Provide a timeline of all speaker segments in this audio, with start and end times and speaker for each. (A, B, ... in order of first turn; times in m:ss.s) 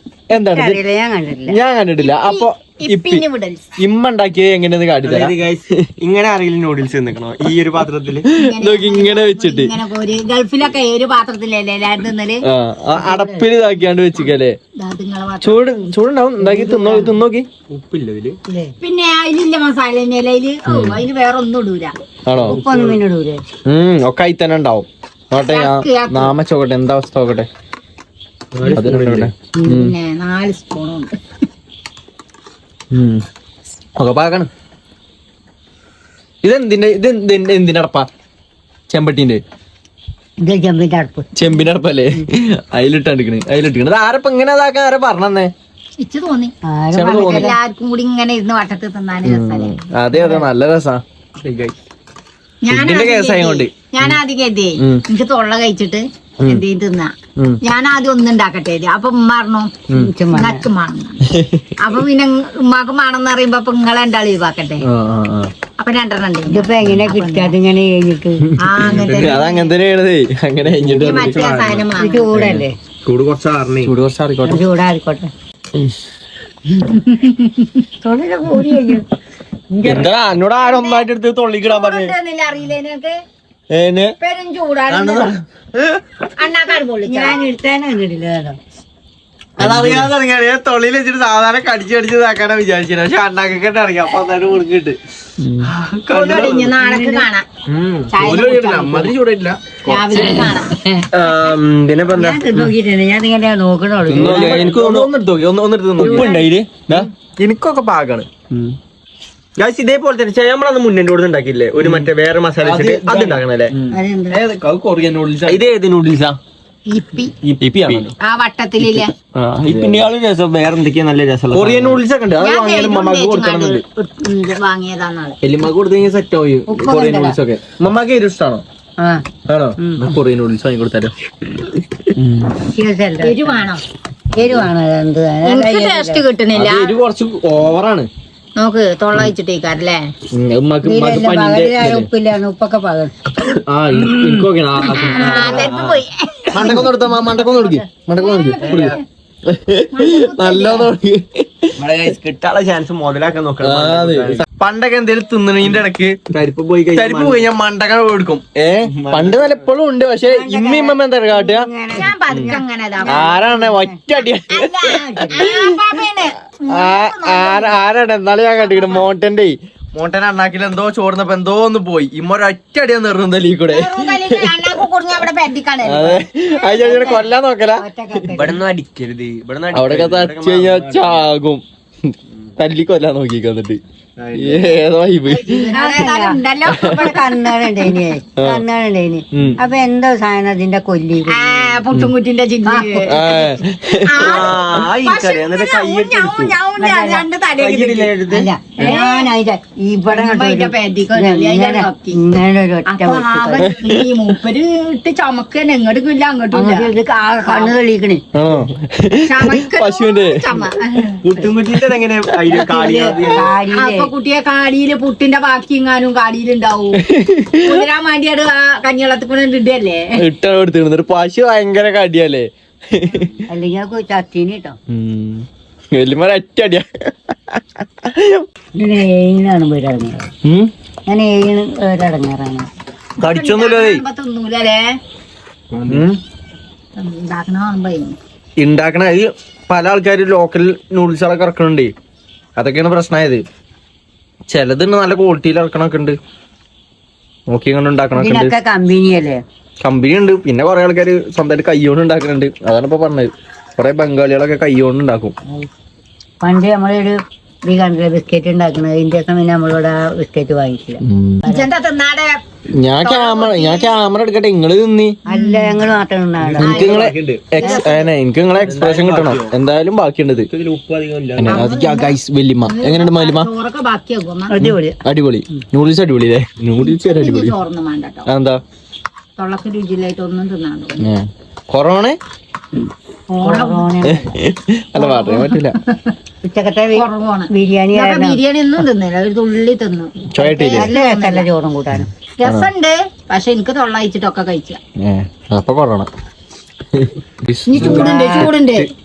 0:00.3-0:00.8 A
0:00.5-0:01.6 B
0:01.5-0:03.2 A
0:02.0-0:03.6 C
0:03.8-0:05.3 A
0:05.0-0:08.3 D
0:08.3-0:12.4 C
0:08.4-0:09.7 A
0:12.5-0:14.6 A
0:12.9-0:13.5 B
0:14.8-0:15.6 C
0:15.4-0:17.5 A
0:16.4-0:17.1 B
0:17.7-0:18.4 D
0:18.5-0:18.8 B
0:18.8-0:21.9 C
0:20.7-0:21.0 A
0:22.3-0:22.6 A
0:22.4-0:23.0 D
0:22.4-0:23.4 B
0:23.7-0:27.5 A
0:25.4-0:26.4 C
0:28.5-0:29.3 D
0:28.7-0:30.0 A
0:29.7-0:31.2 C
0:32.9-0:33.2 A
0:34.0-0:34.5 A
0:36.4-0:38.1 A
0:38.9-0:39.4 A
0:40.4-0:41.3 B
0:41.4-0:45.5 A
0:46.0-0:46.5 C
0:46.7-0:47.6 B
0:46.9-0:47.6 A
0:47.3-0:49.8 C
0:49.2-0:51.0 A
0:50.1-0:50.4 B
0:51.4-0:51.7 D
0:52.6-1:01.2 C
0:52.7-0:54.2 A
0:59.9-1:00.7 B
1:01.3-1:01.7 A
1:01.8-1:04.8 C
1:04.8-1:05.5 A
1:05.8-1:07.5 C
1:06.5-1:08.5 B
1:08.6-1:09.7 C
1:08.6-1:11.7 A
1:08.8-1:09.4 D
1:10.7-1:11.9 D
1:11.0-1:12.5 C
1:12.0-1:12.7 B
1:12.4-1:12.6 A
1:13.0-1:13.9 D
1:13.8-1:14.6 A
1:14.5-1:15.3 B
1:16.9-1:17.8 C
1:18.0-1:19.0 B
1:19.8-1:20.1 B
1:19.8-1:22.1 A
1:20.6-1:21.1 C
1:21.6-1:23.2 C
1:23.7-1:24.2 A
1:24.2-1:25.4 C
1:24.9-1:26.0 A
1:26.4-1:27.4 C
1:27.0-1:28.6 B
1:29.6-1:36.4 A
1:35.8-1:36.8 D
1:36.1-1:37.4 C
1:36.9-1:37.2 B
1:37.7-1:40.5 A
1:38.1-1:39.1 C
1:39.9-1:41.1 C
1:41.1-1:42.4 D
1:42.2-1:44.7 B
1:44.1-1:46.3 A
1:44.1-1:45.1 D
1:46.0-1:47.1 D
1:46.1-1:46.3 B
1:46.9-1:48.3 A
1:49.6-1:53.7 D
1:51.8-1:52.1 A
1:52.6-1:55.6 A
1:53.9-1:54.4 B
1:55.5-1:56.4 D
1:56.9-1:57.3 C
1:57.4-1:58.1 D
1:57.6-1:58.1 A
1:58.2-1:59.1 C
1:58.8-2:02.0 D
1:59.6-2:00.0 A
2:01.5-2:03.8 A
2:02.4-2:05.4 C
2:05.4-2:08.6 A
2:06.7-2:07.4 B
2:09.0-2:09.2 B
2:09.5-2:11.1 A
2:09.8-2:10.1 B
2:12.2-2:12.5 A
2:12.7-2:13.7 B
2:13.2-2:13.8 C
2:14.4-2:16.2 B
2:15.4-2:16.9 C
2:16.5-2:18.1 A
2:18.6-2:20.1 C
2:20.3-2:22.1 A
2:20.8-2:23.1 B
2:23.4-2:25.9 A
2:24.1-2:26.8 C
2:25.6-2:26.0 D
2:26.5-2:29.0 A
2:28.2-2:29.0 C
2:28.6-2:29.0 D
2:29.5-2:31.7 A
2:29.9-2:30.9 C
2:31.8-2:34.5 D
2:33.6-2:36.2 A
2:36.3-2:37.5 D
2:36.9-2:41.6 A
2:38.8-2:39.7 D
2:40.3-2:44.0 B
2:42.0-2:43.3 C
2:43.1-2:45.7 A
2:44.5-2:47.8 C
2:46.7-2:54.8 A
2:48.7-2:49.0 C
2:53.7-2:57.0 C
2:55.8-2:57.8 A
2:56.7-2:57.1 B
2:57.8-2:58.6 B
2:58.3-3:01.2 D
2:59.7-3:01.6 A
3:02.6-3:03.8 A
3:04.2-3:04.8 D
3:04.3-3:05.7 A
3:05.3-3:11.8 B
3:05.7-3:07.8 C
3:06.7-3:07.0 A
3:08.4-3:08.6 A
3:11.3-3:13.2 C
3:12.7-3:13.4 B
3:13.1-3:14.4 A
3:14.0-3:18.1 C
3:14.2-3:16.6 D
3:16.8-3:17.2 B
3:17.6-3:18.9 D
3:18.3-3:23.8 B
3:18.8-3:19.3 C
3:20.1-3:22.2 C
3:22.8-3:26.9 C
3:23.6-3:23.9 A
3:26.5-3:28.2 B
3:27.4-3:27.8 C
3:28.4-3:30.6 A
3:29.2-3:31.3 C
3:31.2-3:33.5 D
3:32.7-3:34.1 B
3:33.6-3:37.0 C
3:36.9-3:37.8 A
3:37.6-3:40.2 C
3:40.2-3:43.3 A
3:43.5-3:44.8 B
3:44.9-3:48.4 A
3:48.8-3:50.3 B
3:50.4-3:50.7 A
3:51.1-3:52.7 B
3:53.2-3:54.0 A
3:53.2-3:55.0 C
3:55.7-3:56.0 D
3:55.9-3:56.2 A
3:57.0-3:58.2 C
3:58.6-4:01.9 A
4:02.6-4:03.4 A
4:04.5-4:06.2 A
4:07.5-4:08.5 A
4:08.1-4:09.4 B
4:09.8-4:15.4 A
4:16.4-4:21.7 B
4:21.1-4:21.4 A
4:21.5-4:22.4 C
4:22.8-4:25.2 A
4:23.0-4:24.0 C
4:25.3-4:28.1 B
4:25.3-4:25.8 C
4:26.4-4:27.5 D
4:26.6-4:30.5 A
4:26.6-4:27.0 C
4:28.6-4:29.5 D
4:30.5-4:31.6 D
4:31.4-4:33.5 A
4:31.5-4:34.5 C
4:34.5-4:35.0 B
4:34.6-4:37.5 A
4:36.8-4:38.3 C
4:38.3-4:38.6 A
4:39.4-4:41.1 C
4:41.0-4:42.2 A
4:43.4-4:44.4 B
4:43.4-4:43.9 C
4:44.1-4:45.8 A
4:45.0-4:46.2 C
4:46.4-4:48.4 B
4:46.9-4:51.5 C
4:50.3-4:50.9 A
4:50.7-4:52.1 B
4:52.4-4:54.8 C
4:52.4-4:52.7 A
4:55.0-4:56.1 A
4:56.9-4:58.9 A
4:57.7-4:58.9 C
4:57.8-4:58.5 B